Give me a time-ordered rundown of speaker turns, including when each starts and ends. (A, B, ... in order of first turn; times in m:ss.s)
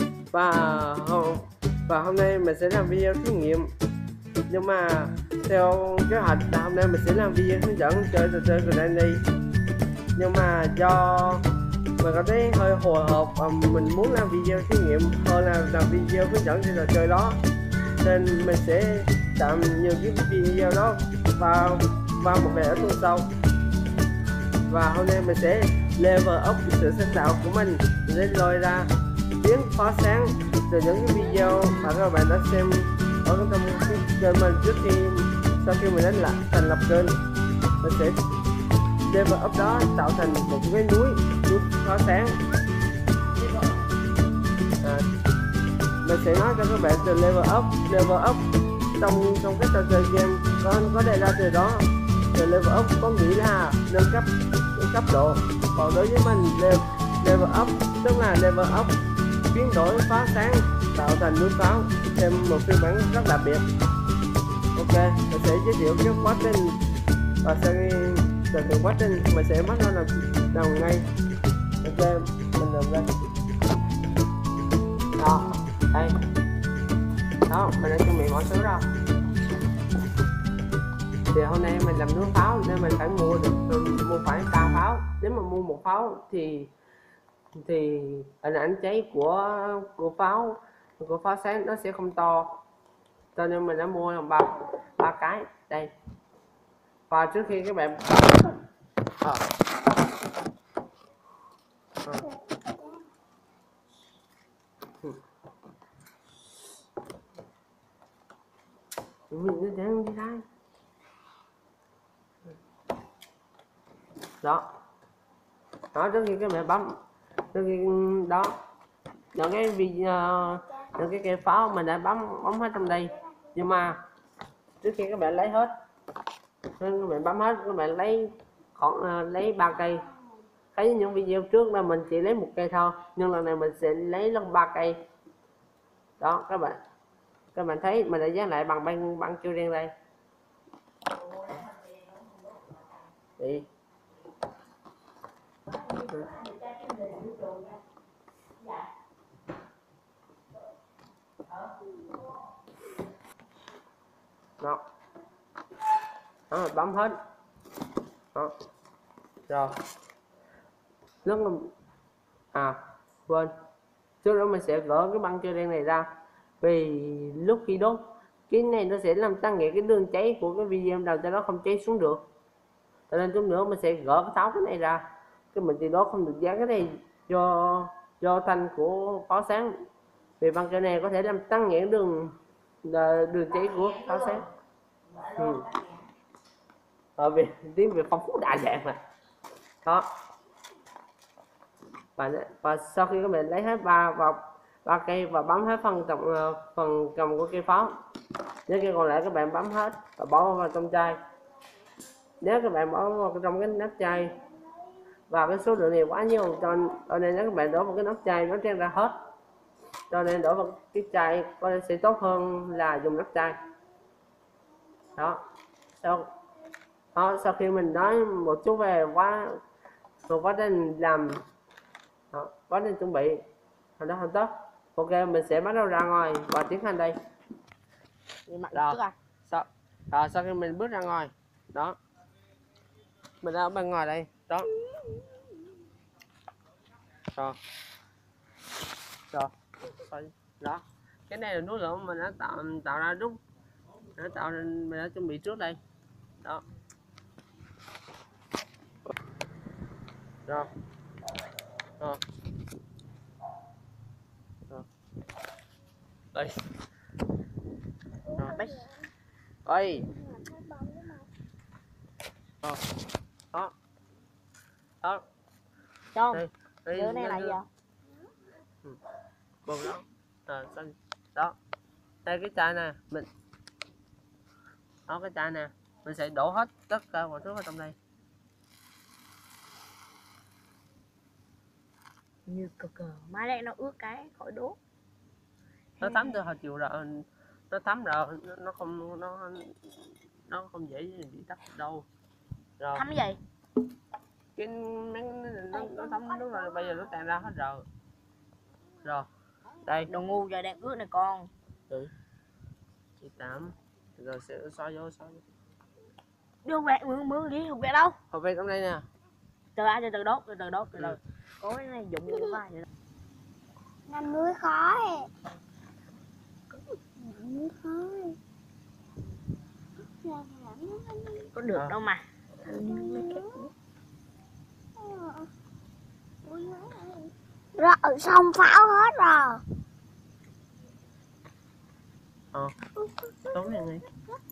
0:00.3-0:03.7 A
0:04.5-0:09.2 A
0:10.2-0:11.4 A
0:12.0-0:17.4 A
0:18.0-0:23.3 A
0:24.7-0:37.2 A
0:37.8-0:38.2 A
0:39.0-0:42.4 A
0:46.0-0:59.0 A
0:59.5-1:03.6 A
1:04.8-1:06.8 A
1:07.4-1:11.0 A
1:11.8-1:13.1 A
1:15.2-1:16.1 A
1:17.5-1:18.9 A
1:21.3-1:26.7 A
1:27.6-1:32.6 A
1:33.4-1:35.9 A
1:37.1-1:38.5 A
1:49.3-1:50.4 A
1:55.9-1:57.0 A
1:57.5-1:58.5 A
1:59.3-2:04.0 A
2:04.8-2:05.7 A
2:06.8-2:10.0 A
2:10.7-2:15.0 A
2:16.2-2:16.8 A
2:17.5-2:19.9 A
2:23.4-2:23.7 A
2:26.1-2:27.7 B
2:36.5-2:37.2 A
2:39.5-2:39.7 A
2:41.2-2:41.7 A
2:42.5-2:43.5 A
2:44.2-2:46.1 A
2:46.6-2:52.2 A
2:53.1-2:55.0 A
2:55.5-2:59.7 A
3:00.4-3:04.5 A
3:05.3-3:05.7 A
3:07.2-3:09.0 A
3:12.2-3:17.9 A
3:18.7-3:21.2 A
3:22.4-3:24.4 A
3:25.3-3:29.1 A
3:30.1-3:33.5 A
3:36.0-3:36.3 A
3:37.1-3:39.6 A
3:40.3-3:41.4 A
3:42.3-3:43.4 A
3:44.0-3:47.2 A
3:48.5-3:49.1 B
3:48.7-3:52.0 A
3:53.4-3:54.7 A
3:59.3-4:03.4 A
4:04.2-4:05.8 A
4:16.3-4:16.6 A
4:18.4-4:18.9 B
4:19.6-4:20.1 A
4:20.4-4:21.1 C
4:26.1-4:27.7 B
4:26.3-4:27.6 A
4:29.6-4:31.6 A
4:32.2-4:33.3 A
4:35.1-4:38.0 A
4:42.5-4:44.8 B
4:46.0-4:52.0 A
4:52.8-4:53.0 A
4:52.9-4:53.4 B
4:54.6-4:57.8 A
4:59.8-5:00.1 A
5:00.1-5:01.5 B
5:03.2-5:05.4 A
5:06.6-5:08.2 B
5:08.3-5:09.0 A
5:09.8-5:12.8 B
5:14.1-5:15.3 C
5:17.2-5:18.4 C
5:20.2-5:21.5 C
5:21.5-5:23.6 B
5:22.6-5:23.5 C
5:25.0-5:25.5 C
5:26.4-5:29.6 C
5:33.5-5:34.0 A